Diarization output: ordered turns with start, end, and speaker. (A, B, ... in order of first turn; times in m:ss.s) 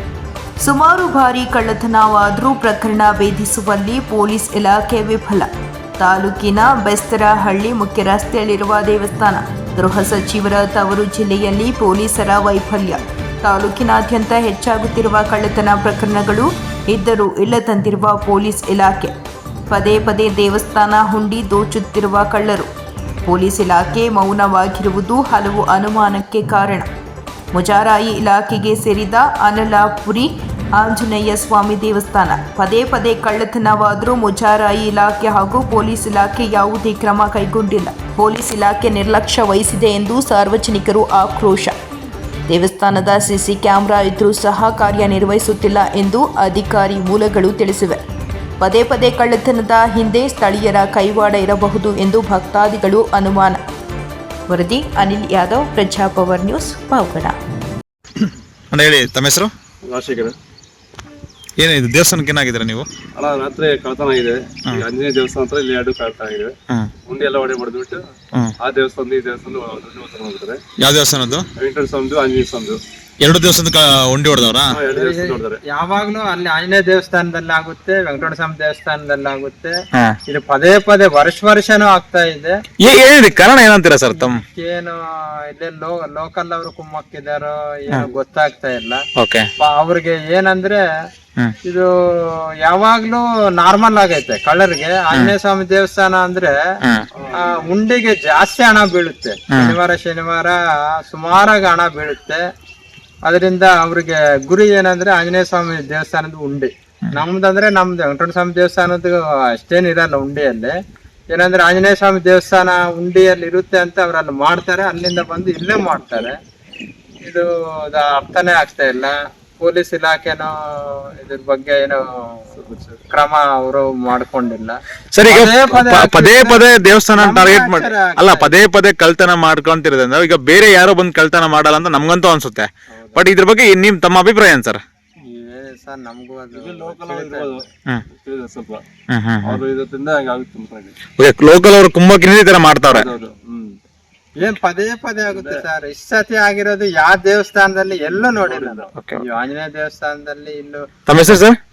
0:00.6-0:19.1 A
0:19.7-0:22.7 A
0:23.2-0:26.9 A
0:27.5-0:41.7 A
0:42.5-0:48.0 A
0:48.6-0:53.6 A
0:54.5-0:57.4 A
0:58.2-0:59.5 B
0:59.8-1:00.4 C
1:01.6-1:02.9 B
1:03.2-1:06.5 C
1:07.1-1:08.0 C
1:08.6-1:10.6 C
1:10.8-1:11.5 B
1:11.6-1:12.8 C
1:13.2-1:14.8 B
1:14.7-1:15.6 C
1:14.8-1:19.7 D
1:20.3-1:22.6 D
1:22.8-1:24.4 B
1:24.3-1:25.0 D
1:25.5-1:29.0 D
1:29.2-1:29.5 B
1:29.6-1:30.8 D
1:32.6-1:36.5 D
1:37.2-1:37.7 C
1:37.3-1:42.4 D
1:43.2-1:50.7 D
1:51.3-1:56.3 D
1:57.2-2:02.4 D
2:02.5-2:03.0 C
2:03.1-2:06.6 D
2:05.1-2:14.8 B
2:07.2-2:08.5 D
2:15.3-2:17.5 D
2:16.5-2:17.6 C
2:18.2-2:18.8 C
2:19.1-2:19.6 B
2:19.4-2:21.0 C
2:21.2-2:23.1 B
2:22.9-2:23.8 C
2:24.4-2:30.9 D
2:25.3-2:25.6 C
2:28.1-2:28.9 C
2:29.0-2:29.2 B
2:31.1-2:31.6 B